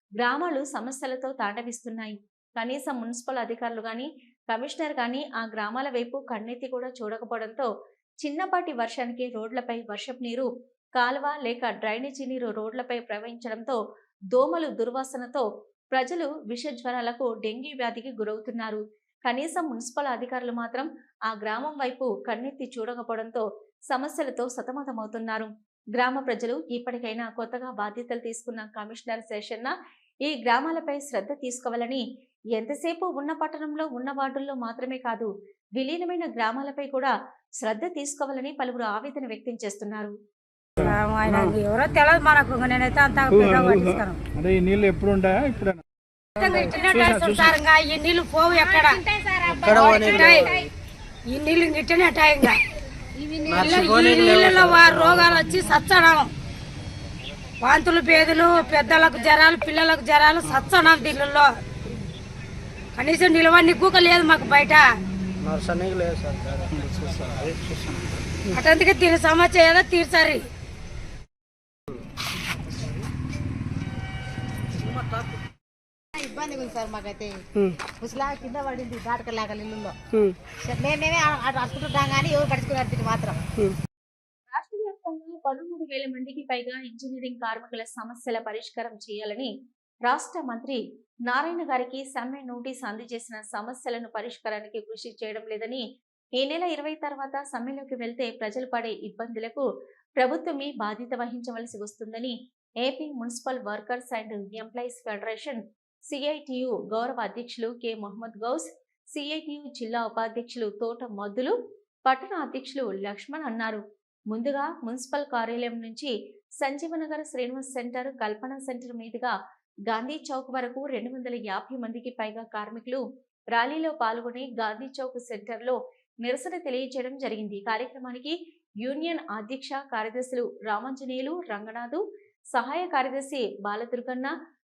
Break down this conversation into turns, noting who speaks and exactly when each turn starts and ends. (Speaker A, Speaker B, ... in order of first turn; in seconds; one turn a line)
Speaker A: 0.2-7.7
Speaker A: 8.2-13.8
Speaker A: 14.3-29.7
Speaker A: 30.2-32.0
Speaker A: 32.5-40.1
Speaker B: 40.8-41.5
Speaker C: 40.8-44.2
Speaker B: 43.3-45.8
Speaker C: 46.4-49.0
Speaker B: 46.9-47.6
Speaker D: 49.4-50.4
Speaker C: 49.6-50.6
Speaker C: 51.3-52.6
Speaker C: 53.2-56.3
Speaker C: 57.6-61.5
Speaker C: 63.0-64.9
Speaker C: 68.5-70.4
Speaker D: 76.2-79.9
Speaker D: 80.6-83.4
Speaker A: 84.5-89.5
Speaker A: 90.0-95.8
Speaker A: 96.4-99.6
Speaker A: 100.2-111.5
Speaker A: 112.0-119.3
Speaker A: 119.9-134.3